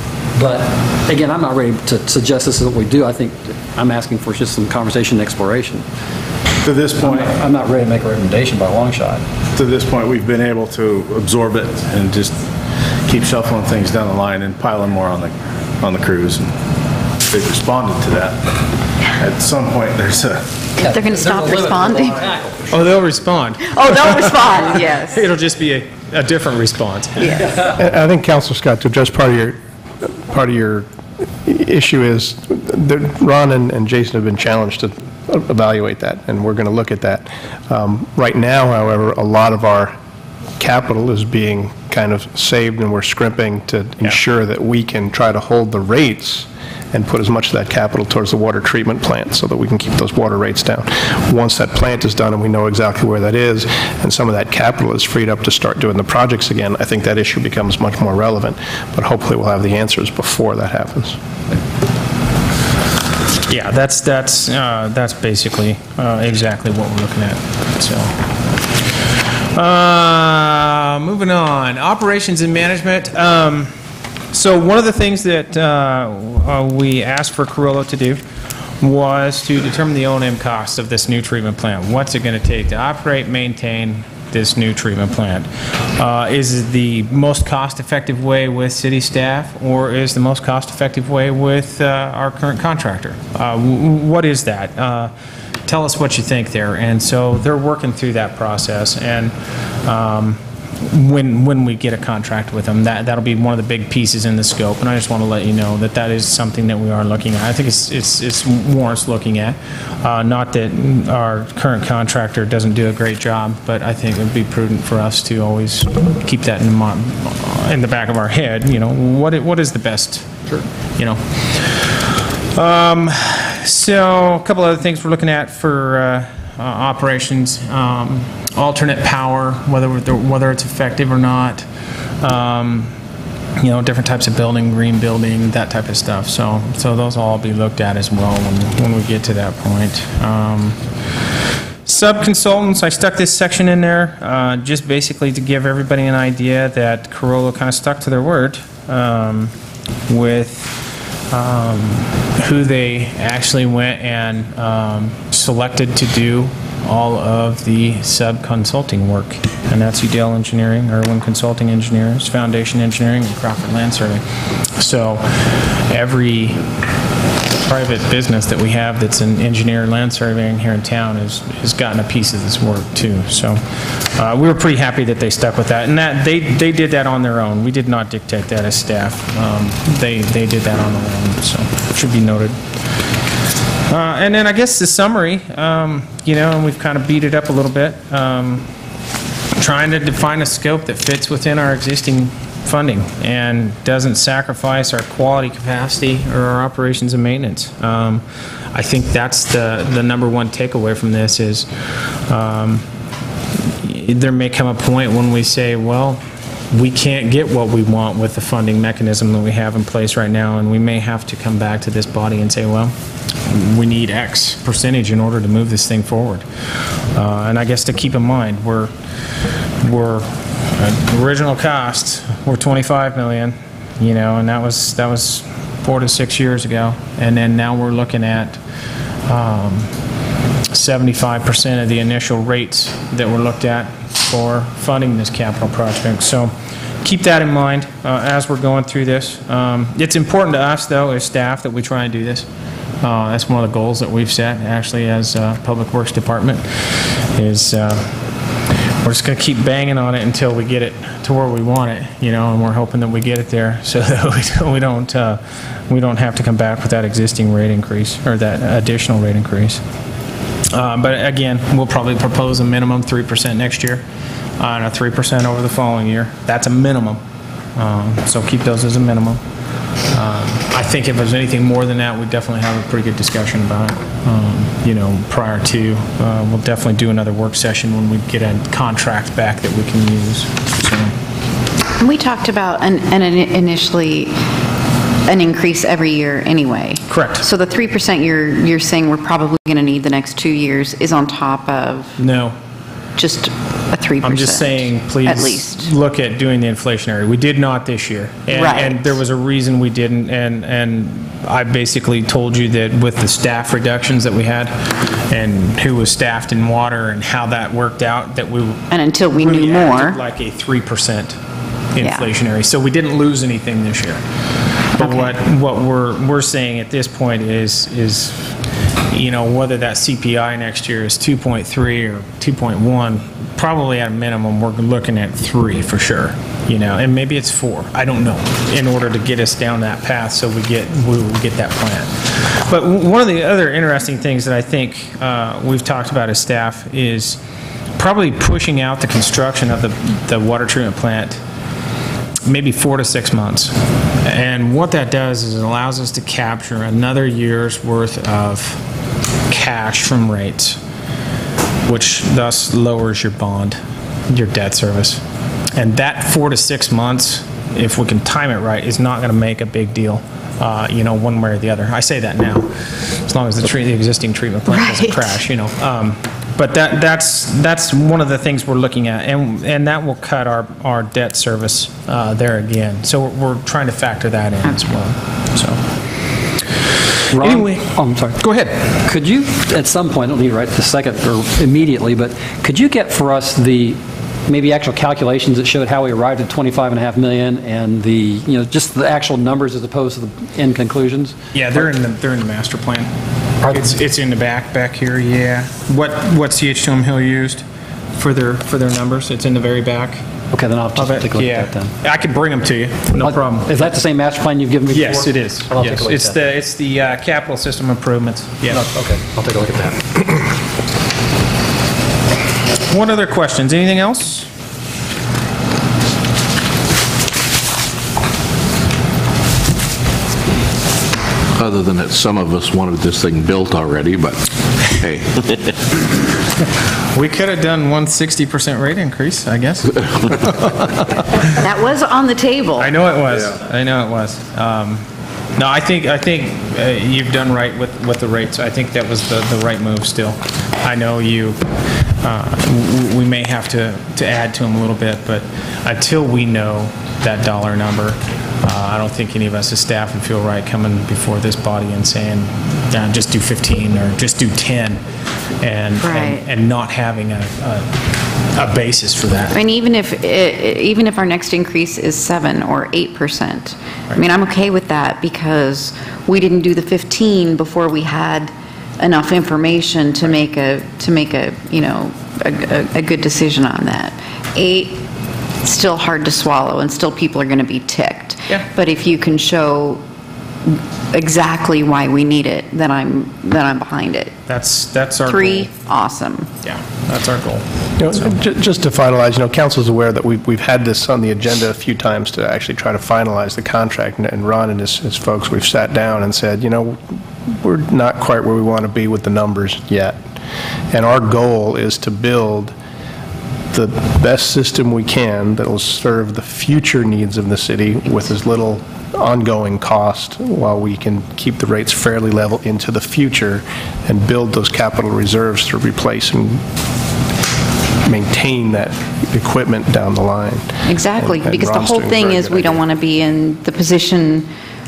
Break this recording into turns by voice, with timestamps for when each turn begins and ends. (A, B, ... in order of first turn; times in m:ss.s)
0:00.3-0:05.8 A
0:06.6-0:07.4 B
0:07.0-0:09.2 A
0:09.6-0:12.4 B
0:13.0-0:16.5 B
0:17.3-0:18.5 B
0:19.2-0:20.5 B
0:20.8-0:22.6 A
0:20.8-0:22.3 C
0:22.7-0:27.4 D
0:23.6-0:25.3 C
0:27.7-0:30.9 E
0:31.4-0:40.0 E
0:40.6-1:01.2 E
1:03.5-1:08.2 D
1:09.5-1:13.7 D
1:14.3-1:18.2 D
1:18.8-1:35.1 D
1:35.7-2:02.0 D
2:02.6-2:11.6 D
2:12.2-2:12.9 D
2:13.6-2:20.8 D
2:21.9-2:29.5 D
2:30.1-2:44.2 D
2:44.8-2:46.6 D
2:47.6-2:53.6 D
2:54.2-3:02.6 D
3:03.9-3:08.7 D
3:09.6-3:22.9 D
3:23.8-3:32.9 D
3:33.4-3:36.4 D
3:37.1-3:38.9 D
3:39.8-3:48.6 D
3:49.3-3:49.9 D
3:50.7-4:02.5 D
4:03.0-4:08.2 D
4:09.0-4:19.8 D
4:20.7-4:24.0 D
4:24.6-4:27.2 D
4:27.8-4:29.4 D
4:30.1-4:41.1 D
4:42.0-4:44.3 C
4:45.2-4:52.1 C
4:47.1-4:47.4 D
4:52.2-4:52.6 D
4:53.2-4:55.9 C
4:54.2-5:04.7 D
4:58.5-4:59.2 C
5:05.3-5:11.4 D
5:08.9-5:10.2 C
5:12.0-5:14.2 D
5:12.0-5:12.3 C
5:15.0-5:15.3 C
5:15.0-5:18.5 D
5:19.1-5:37.4 D
5:38.0-5:41.4 D
5:42.5-5:48.8 D
5:49.5-5:50.8 D
5:51.8-5:53.8 D
5:54.3-5:55.2 D
5:55.8-6:15.8 D
6:04.7-6:05.4 C
6:17.3-6:18.4 A
6:17.3-6:19.0 D
6:19.0-6:31.9 A
6:31.5-6:33.1 D
6:33.6-6:34.0 A
6:33.7-6:37.6 D
6:38.2-6:40.2 D
6:40.5-6:41.9 A
6:41.0-6:43.9 D
6:43.2-6:46.4 A
6:44.9-6:48.8 D
6:48.7-6:50.0 A
6:52.9-6:54.5 D
7:01.5-7:05.3 F
7:07.1-7:10.0 D
7:11.6-7:12.9 C
7:12.8-7:35.0 D
7:35.6-7:37.9 D
7:36.0-7:36.4 C
7:38.5-7:39.5 D
7:39.5-7:55.0 C
7:55.6-8:00.0 C
8:01.1-8:04.4 C
8:04.5-8:05.7 D
8:05.2-8:06.5 C
8:06.6-8:08.3 D
8:08.0-8:20.2 E
8:20.9-8:22.8 E
8:23.7-8:36.6 E
8:38.0-8:42.8 E
8:40.9-8:44.5 C